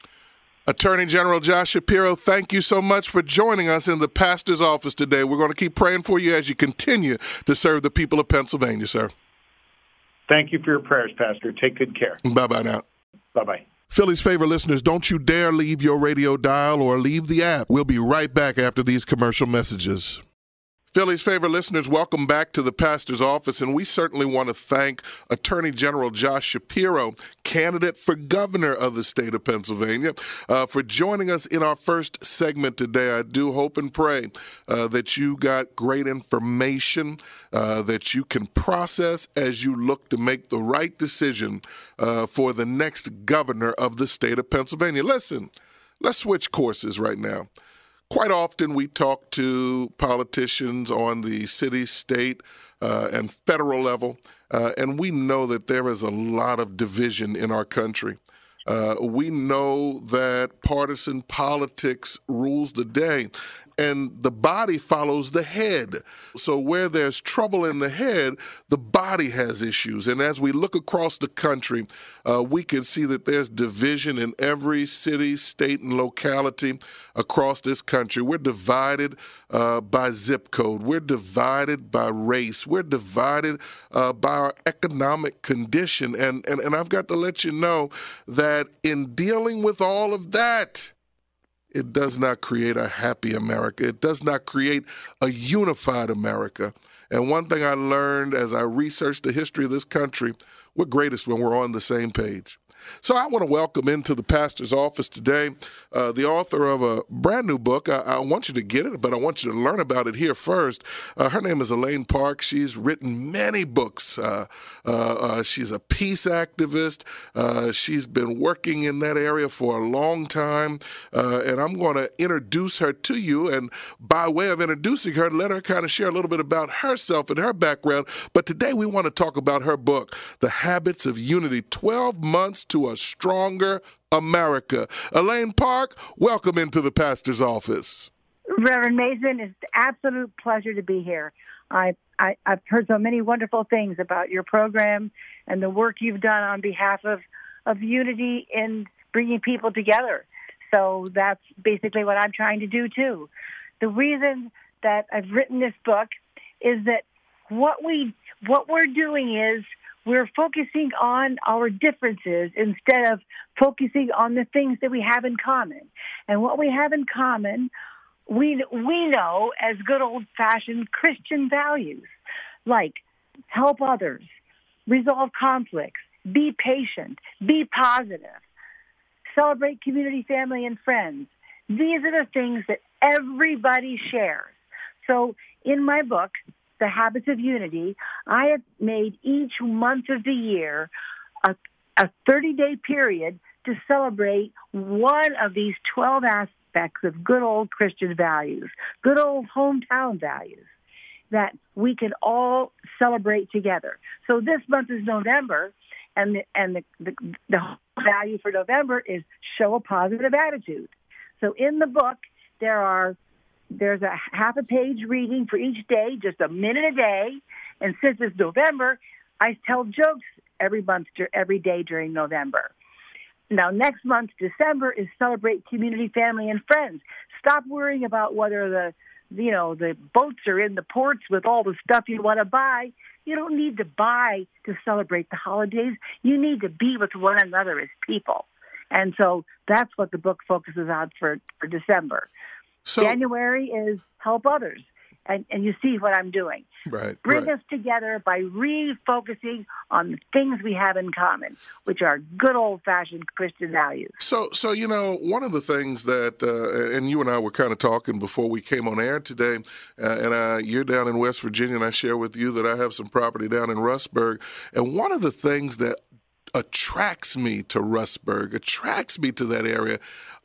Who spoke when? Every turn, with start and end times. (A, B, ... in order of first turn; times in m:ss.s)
0:00.7-0:09.1 A
0:10.3-0:12.2 B
0:12.2-0:12.8 A
0:13.3-0:13.6 B
0:13.9-0:20.2 A
0:20.9-0:47.5 A
0:48.1-1:30.9 A
1:31.7-2:18.1 A
2:18.5-2:33.3 C
2:33.8-2:36.1 C
2:36.6-2:47.7 C
2:48.3-2:52.1 C
2:52.7-2:54.2 C
2:54.9-2:58.4 C
2:59.4-3:10.9 C
3:11.4-3:20.6 C
3:21.3-3:33.2 C
3:33.7-3:42.7 C
3:43.5-4:02.3 C
4:02.9-4:03.2 A
4:03.0-4:06.7 C
4:06.9-4:07.5 A
4:07.2-4:14.2 C
4:14.2-4:26.0 A
4:26.6-4:30.0 A